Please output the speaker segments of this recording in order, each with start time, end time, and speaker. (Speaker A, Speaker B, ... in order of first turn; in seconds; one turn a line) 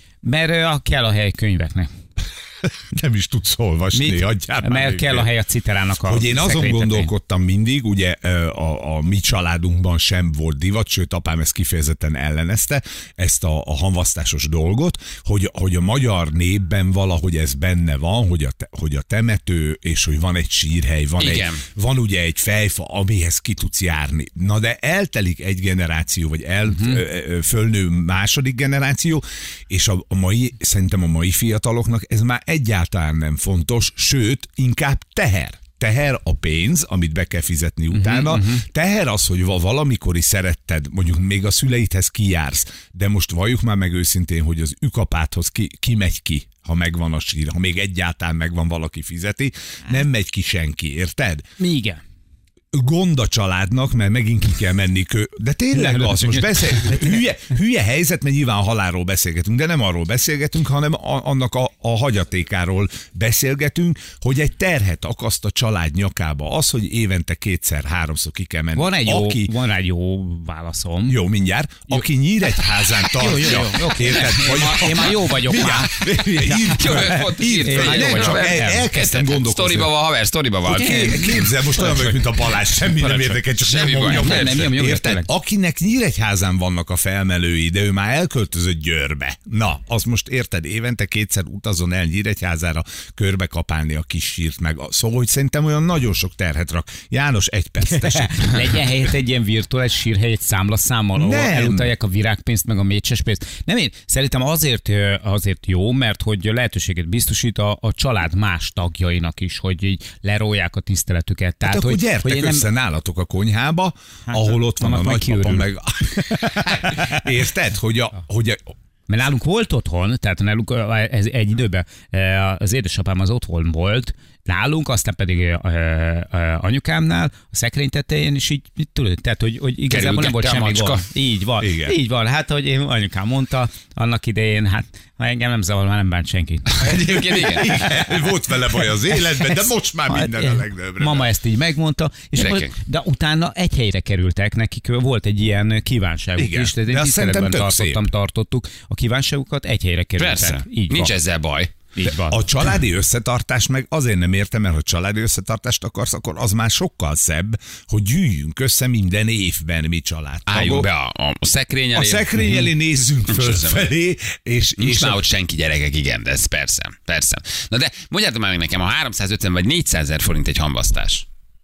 Speaker A: 0.2-1.9
Speaker B: 2.8-5.3
Speaker A: 3.9-7.1
Speaker B: 6.0-51.4
Speaker C: 21.2-21.6
Speaker A: 26.7-27.0
Speaker A: 37.9-38.6
Speaker A: 51.6-52.0
Speaker B: 52.7-69.5
Speaker A: 55.7-57.1
Speaker A: 68.7-71.2
Speaker B: 71.0-79.9
Speaker A: 73.1-76.0
Speaker C: 76.4-81.5
Speaker A: 76.5-78.9
Speaker B: 80.6-99.0
Speaker A: 81.6-82.1
Speaker C: 83.0-84.7
Speaker A: 84.1-85.3
Speaker A: 97.8-112.7
Speaker B: 101.2-101.9
Speaker B: 111.6-118.6
Speaker A: 114.3-115.7
Speaker A: 119.1-138.3
Speaker C: 129.9-131.0
Speaker B: 131.6-131.9
Speaker C: 136.7-137.7
Speaker B: 137.0-141.3
Speaker A: 138.9-151.1
Speaker C: 142.4-142.7
Speaker B: 146.4-148.1
Speaker C: 150.2-151.7
Speaker A: 151.9-152.5
Speaker B: 152.1-160.9
Speaker C: 160.5-162.7
Speaker B: 161.9-165.2
Speaker C: 163.3-163.9
Speaker C: 164.8-171.3